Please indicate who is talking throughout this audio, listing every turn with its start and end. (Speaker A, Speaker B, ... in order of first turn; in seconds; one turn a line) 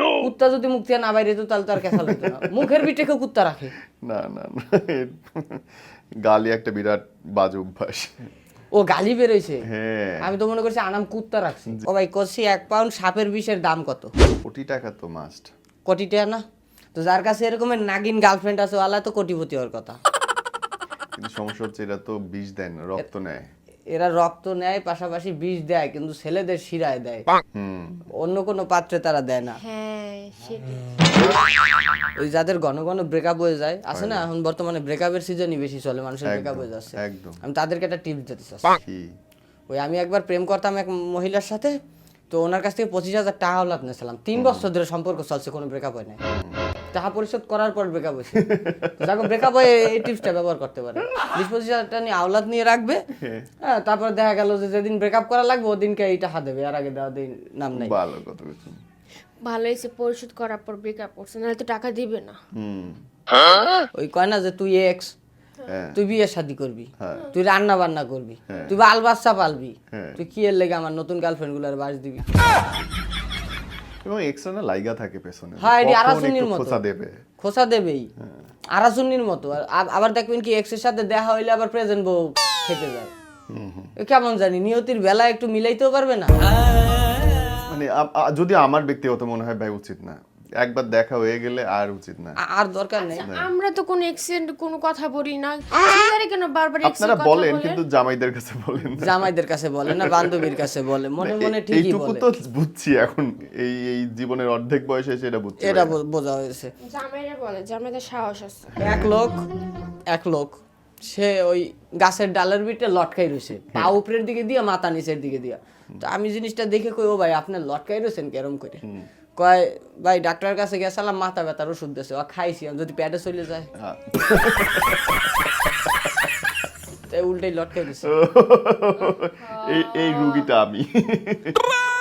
Speaker A: 0.2-3.7
Speaker B: 1.9-2.9
Speaker B: 4.0-8.3
Speaker A: 8.7-9.7
Speaker B: 9.7-10.3
Speaker A: 10.2-14.1
Speaker B: 14.4-15.5
Speaker A: 15.9-16.4
Speaker A: 16.9-20.0
Speaker B: 21.2-23.4
Speaker A: 23.9-27.2
Speaker B: 27.5-28.1
Speaker A: 28.2-29.6
Speaker C: 29.6-31.2
Speaker A: 32.2-38.8
Speaker B: 33.9-34.3
Speaker B: 36.2-37.4
Speaker B: 38.8-39.1
Speaker A: 39.7-41.7
Speaker A: 42.3-46.2
Speaker B: 44.4-44.7
Speaker B: 46.3-46.6
Speaker A: 46.9-53.0
Speaker B: 48.3-49.5
Speaker B: 53.2-53.5
Speaker A: 53.6-58.0
Speaker B: 57.8-58.8
Speaker C: 59.4-62.4
Speaker B: 62.5-63.0
Speaker A: 64.0-65.1
Speaker B: 65.7-66.0
Speaker A: 65.9-72.3
Speaker B: 67.0-67.3
Speaker B: 68.5-68.8
Speaker B: 69.9-70.2
Speaker B: 74.0-77.2
Speaker A: 75.6-76.8
Speaker A: 77.4-78.1
Speaker A: 78.7-83.1
Speaker B: 83.5-83.9
Speaker A: 84.0-87.6
Speaker B: 87.7-92.4
Speaker A: 92.4-93.3
Speaker C: 93.0-97.8
Speaker B: 96.8-99.3
Speaker A: 99.0-102.2
Speaker B: 99.9-100.5
Speaker B: 101.2-106.0
Speaker A: 105.6-106.7
Speaker C: 106.8-108.8
Speaker B: 108.8-109.2
Speaker A: 108.8-109.5
Speaker A: 110.1-118.8
Speaker A: 119.4-123.7
Speaker B: 123.8-126.1
Speaker A: 127.1-128.1
Speaker B: 128.0-131.7
Speaker C: 129.6-130.3